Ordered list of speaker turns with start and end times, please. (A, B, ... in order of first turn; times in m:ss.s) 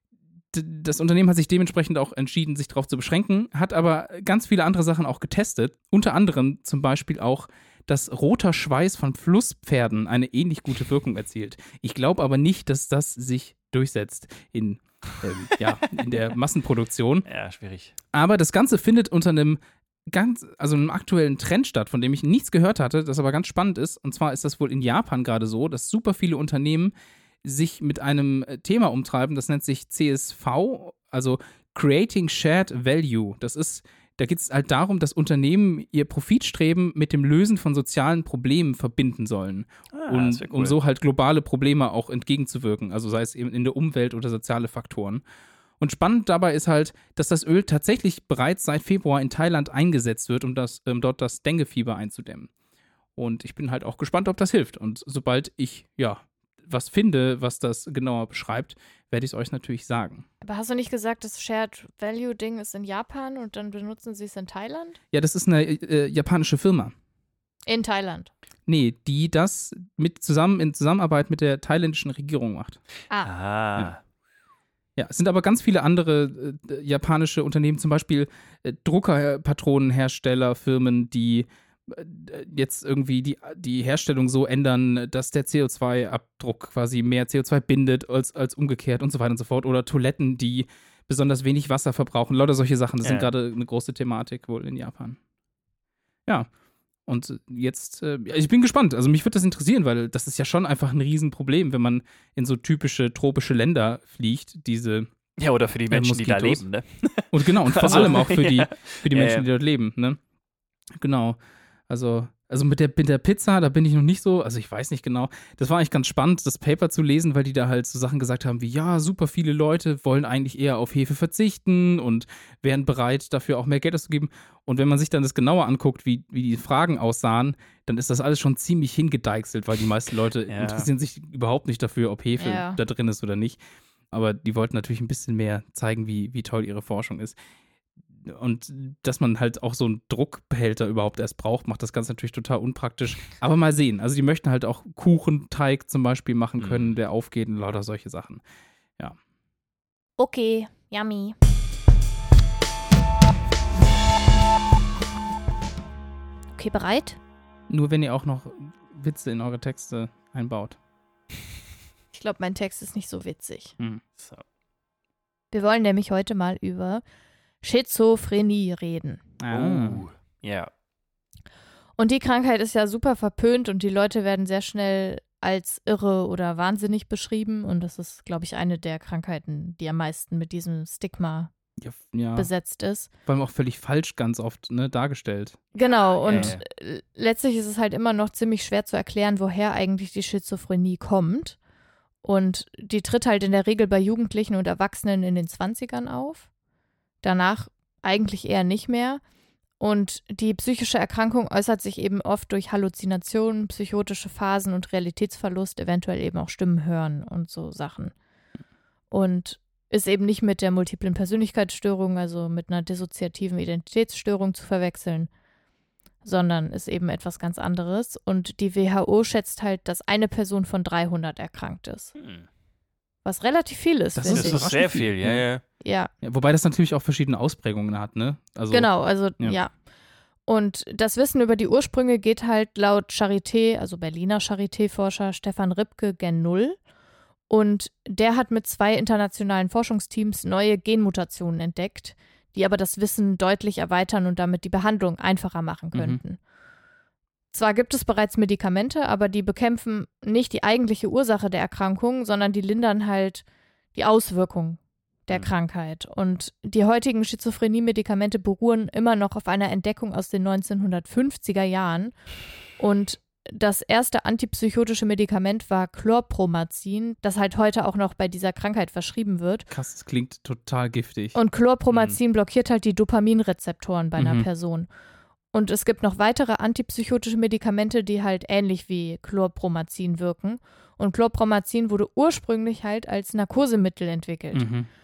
0:00.5-0:17.3 A
0:17.3-0:17.9 B
0:18.1-0:19.6 A
0:20.1-0:45.2 A
0:39.9-0:40.8 B
0:45.8-0:52.5 A
0:53.2-1:00.3 A
1:00.4-1:05.0 C
1:05.1-1:06.9 A
1:07.7-1:08.3 C
1:08.7-1:12.8 A
1:13.2-1:14.0 B
1:15.0-1:35.2 A
1:33.0-1:33.3 B
1:37.1-1:45.1 A
1:45.4-1:49.4 B
1:45.9-1:46.6 A
1:47.3-1:50.2 A
1:51.0-1:51.4 A
1:51.9-2:13.6 A
2:10.5-2:10.9 B
2:12.4-2:12.8 C
2:14.1-2:17.4 A
2:18.2-2:28.4 A
2:26.6-2:27.0 B
2:30.2-2:31.4 C
2:36.5-2:37.2 C
2:37.7-2:40.8 A
2:42.1-2:43.8 C
2:44.2-2:44.4 B
2:45.5-2:47.0 C
2:47.6-2:49.2 C
2:49.4-2:50.0 A
2:49.5-2:50.7 B
2:52.0-3:01.5 C
3:01.8-3:02.5 A
3:02.4-3:03.1 C
3:03.3-3:05.6 A
3:05.8-3:11.6 C
3:06.2-3:06.6 B
3:06.3-3:06.6 A
3:12.2-3:16.5 C
3:17.2-3:19.2 C
3:19.8-3:28.1 C
3:29.1-3:35.3 C
3:36.2-3:42.2 C
3:42.2-3:42.5 B
3:43.2-3:44.6 C
3:44.2-3:45.5 A
3:44.3-3:45.6 B
3:45.8-3:46.1 C
3:46.2-3:49.6 A
3:48.7-3:49.7 C
3:50.5-3:56.8 C
3:57.5-4:06.4 C
4:05.9-4:06.2 A
4:07.5-4:22.2 C
4:22.8-4:29.7 C
4:29.7-4:31.4 A
4:31.4-4:34.9 C
4:31.9-4:32.2 B
4:34.2-4:34.5 A
4:35.5-4:44.7 C
4:44.5-4:44.9 A